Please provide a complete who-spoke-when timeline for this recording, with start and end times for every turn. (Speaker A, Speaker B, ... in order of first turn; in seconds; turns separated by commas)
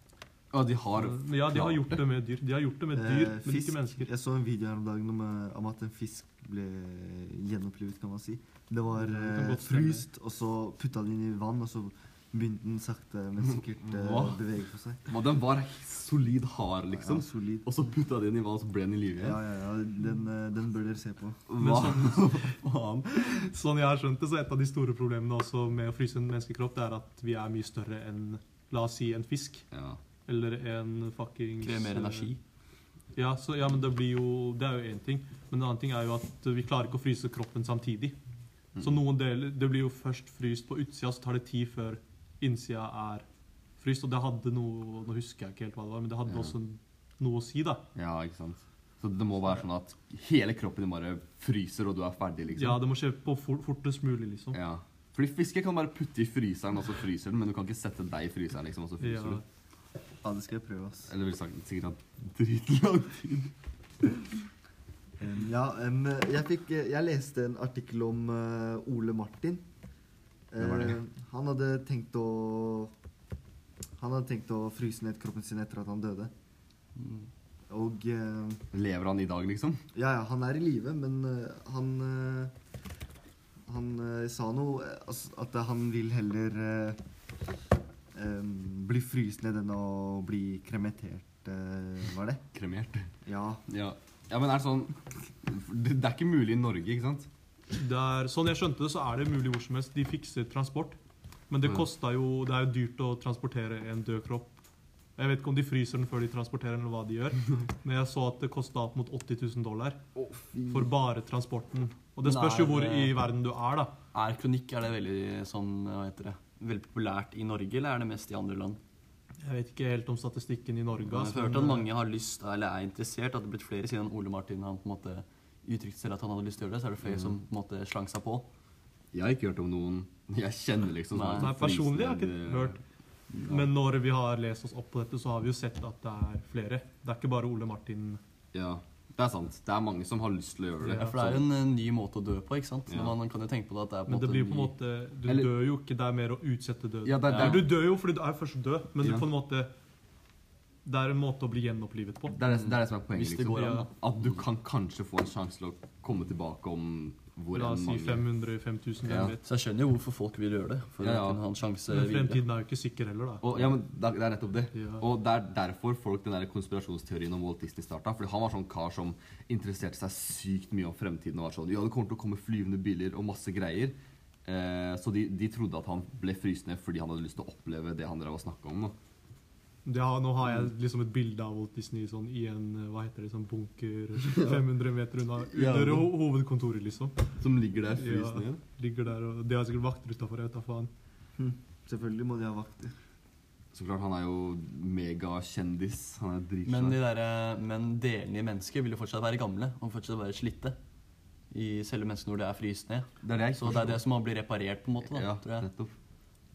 Speaker A: 0.5-2.0, Speaker B: 0.9-4.1, Speaker C: 2.9-15.0, Speaker B: 8.9-10.1, Speaker A: 13.8-14.4, Speaker A: 15.1-19.4, Speaker C: 16.9-17.6, Speaker C: 19.2-21.4, Speaker A: 21.5-23.4, Speaker B: 21.6-22.5, Speaker B: 23.2-29.6, Speaker A: 29.7-30.0, Speaker B: 30.3-32.3, Speaker D: 31.6-32.4, Speaker B: 33.1-38.1, Speaker B: 38.8-43.2, Speaker B: 43.8-47.8, Speaker A: 47.9-52.8, Speaker B: 52.5-54.6, Speaker A: 54.5-59.4, Speaker B: 59.0-59.4, Speaker C: 60.2-61.1, Speaker A: 61.1-63.5, Speaker C: 65.2-69.6, Speaker C: 70.5-72.9, Speaker A: 70.6-70.9, Speaker C: 74.0-76.3, Speaker D: 77.0-77.3, Speaker C: 77.7-78.6, Speaker A: 78.7-79.8, Speaker C: 79.9-82.5, Speaker C: 83.7-87.0, Speaker C: 88.1-92.4, Speaker A: 92.5-93.1, Speaker C: 93.2-93.6, Speaker A: 93.7-97.3, Speaker B: 97.7-101.0, Speaker B: 101.5-104.6, Speaker B: 105.2-110.0, Speaker A: 110.2-110.8, Speaker B: 110.7-113.9, Speaker D: 112.2-113.2, Speaker D: 114.1-118.8, Speaker B: 119.4-121.9, Speaker D: 121.1-128.5, Speaker A: 127.0-127.3, Speaker A: 129.1-132.7, Speaker D: 131.1-131.5, Speaker B: 131.4-132.8, Speaker D: 133.3-133.7, Speaker B: 133.5-138.2, Speaker A: 138.5-141.5, Speaker B: 140.8-141.1, Speaker D: 140.8-144.7, Speaker A: 142.9-143.1, Speaker B: 144.1-149.7, Speaker A: 145.3-145.5, Speaker A: 147.0-147.8, Speaker D: 147.3-147.7, Speaker B: 150.8-152.4, Speaker A: 152.3-158.2, Speaker D: 152.5-153.9, Speaker B: 153.5-153.9, Speaker B: 157.5-159.4, Speaker A: 159.0-159.3, Speaker D: 159.4-162.4, Speaker A: 161.0-161.4, Speaker B: 161.9-163.4, Speaker A: 163.4-178.9, Speaker B: 164.7-165.0, Speaker B: 179.8-187.2, Speaker A: 184.2-184.6, Speaker A: 185.5-186.1, Speaker A: 187.4-188.6, Speaker B: 188.0-190.9, Speaker C: 191.4-192.9, Speaker A: 193.7-197.0, Speaker D: 196.6-200.8, Speaker D: 201.5-205.7, Speaker A: 203.2-204.0, Speaker A: 205.1-205.9